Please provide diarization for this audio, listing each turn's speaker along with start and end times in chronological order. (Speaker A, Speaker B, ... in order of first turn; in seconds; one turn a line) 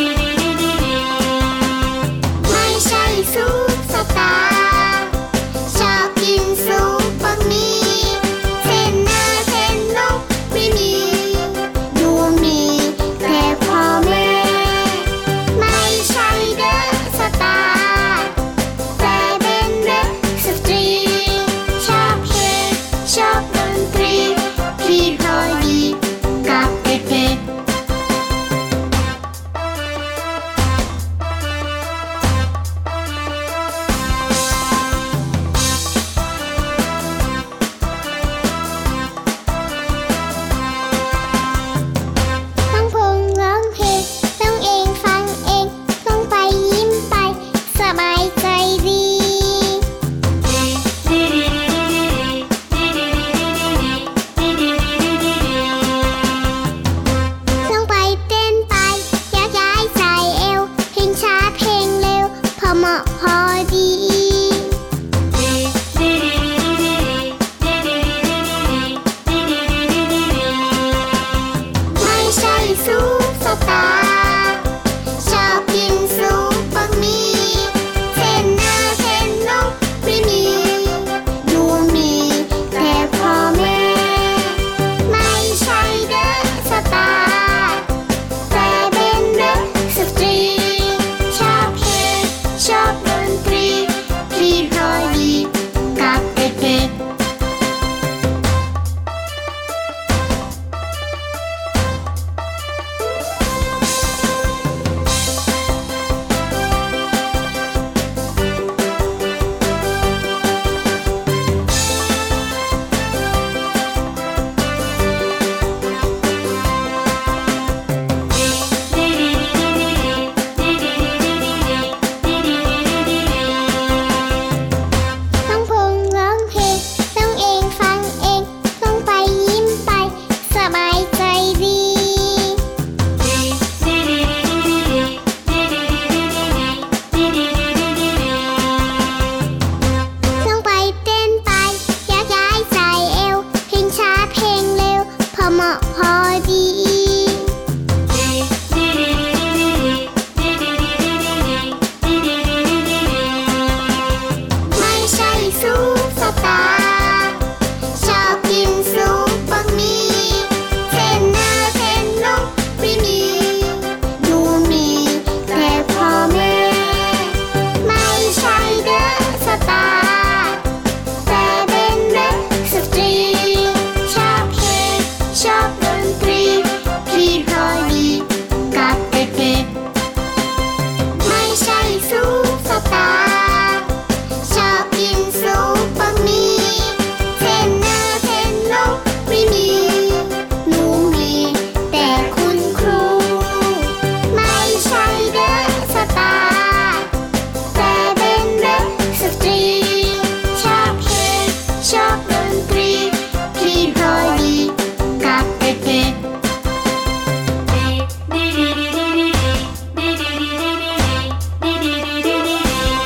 Speaker A: 2.4-18.4
Speaker A: 18.9-27.4
Speaker A: 42.7-49.9
Speaker A: 57.6-64.8
Speaker A: 71.9-87.9
Speaker A: 88.5-96.9
Speaker A: 125.5-132.6
Speaker A: 140.3-147.5
Speaker A: 154.7-157.4
Speaker A: 157.9-170.7
Speaker A: 171.2-179.7
Speaker A: 181.2-197.1
Speaker A: 197.7-206.2